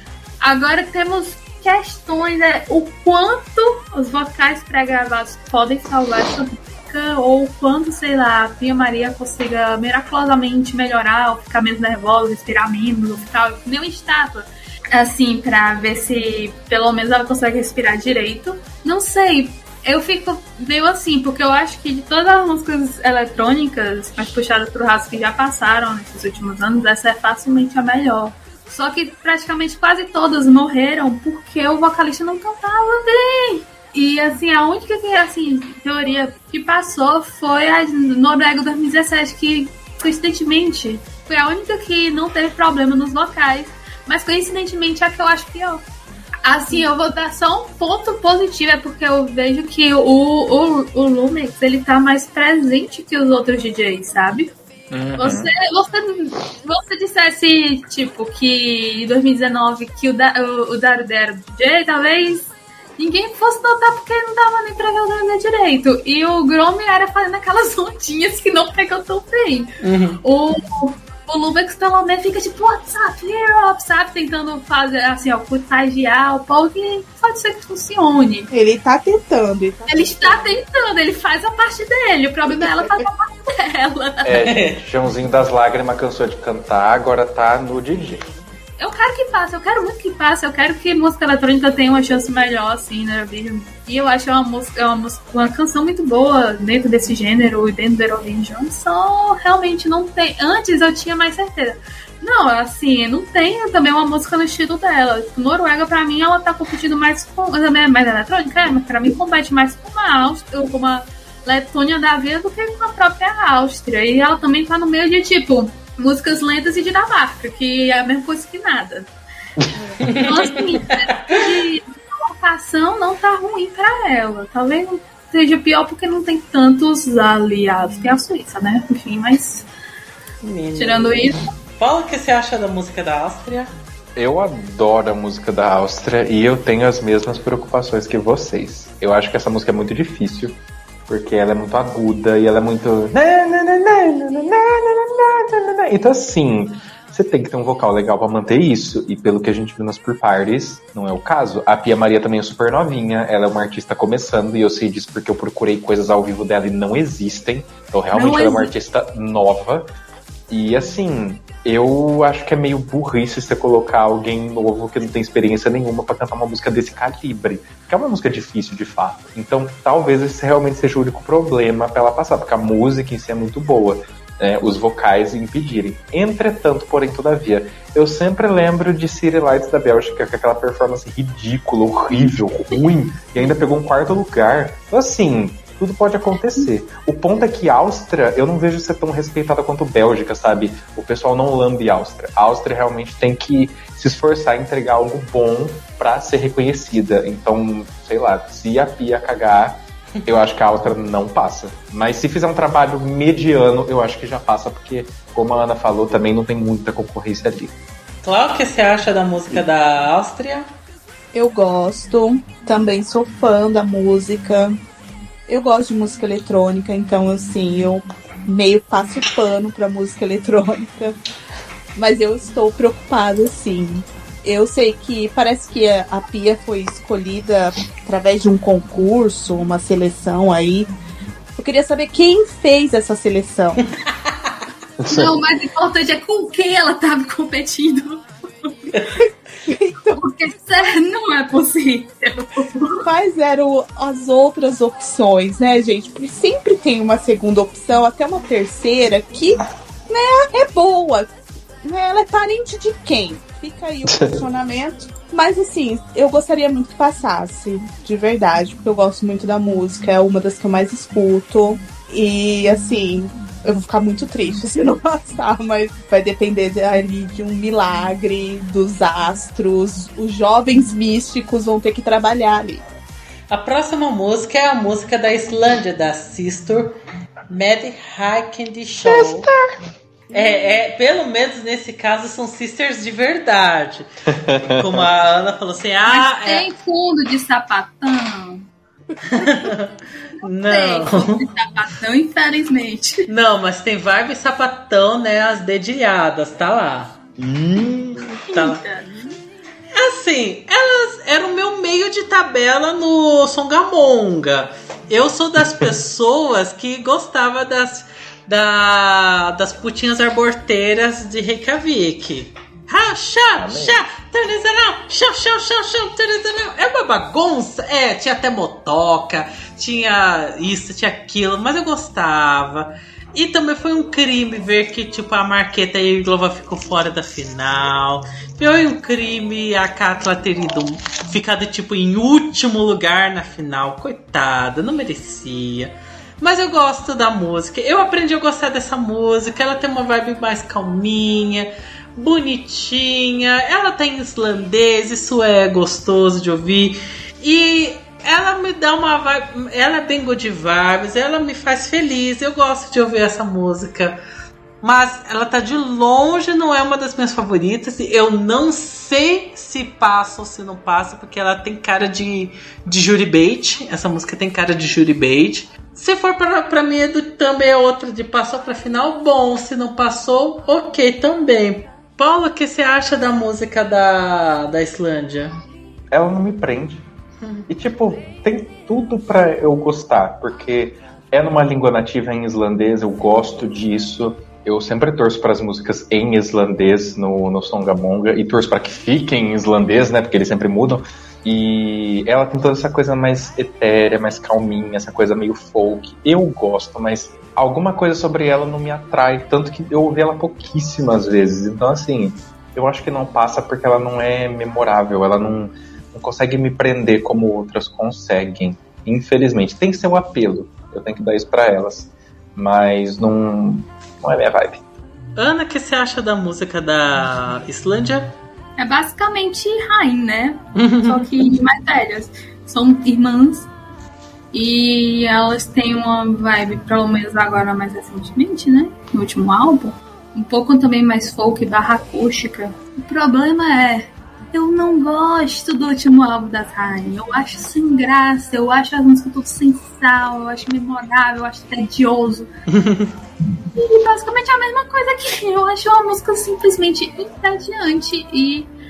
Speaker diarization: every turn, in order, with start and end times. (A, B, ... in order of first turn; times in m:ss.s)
0:00.4-0:45.8 A
0:46.4-0:54.5 A
0:54.9-0:55.5 B
0:55.2-1:09.7 A
1:09.8-1:10.2 C
1:10.2-1:18.5 A
1:18.5-1:20.6 D
1:19.9-1:24.3 A
1:22.6-1:23.0 D
1:24.2-1:28.3 B
1:24.4-1:24.8 C
1:28.8-1:59.1 A
2:00.0-2:01.4 C
2:00.1-2:09.7 A
2:10.4-2:13.7 C
2:10.8-2:11.4 A
2:14.2-2:39.9 B
2:38.1-2:38.7 A
2:40.5-3:27.7 B
3:28.2-3:30.6 C
3:31.3-3:34.8 D
3:35.5-3:41.2 D
3:41.9-3:50.9 D
3:51.6-3:53.8 D
3:54.2-3:54.5 C
3:55.0-3:55.3 B
3:55.1-3:58.7 A
3:59.6-4:00.2 D
4:00.2-4:03.1 A
4:03.0-4:32.8 D
4:14.1-4:14.4 B
4:33.5-4:37.0 C
4:37.5-4:39.5 C
4:39.0-4:39.8 B
4:40.3-4:44.1 C
4:44.4-4:45.1 B
4:44.8-4:46.7 C
4:46.1-4:48.7 A
4:49.3-4:51.4 C
4:50.6-4:53.3 A
4:53.3-4:57.2 C
4:57.4-4:58.4 B
4:58.5-4:59.2 A
4:58.5-4:58.8 C
4:59.9-5:54.2 C
5:05.6-5:05.9 B
5:13.6-5:14.0 B
5:54.8-6:15.6 C
6:16.1-6:17.1 B
6:17.4-6:17.7 C
6:17.7-6:54.8 B
6:55.4-6:58.4 C
6:58.8-7:03.7 A
7:00.8-7:01.3 C
7:04.5-7:22.5 A
7:22.7-7:23.1 C
7:23.7-7:28.7 A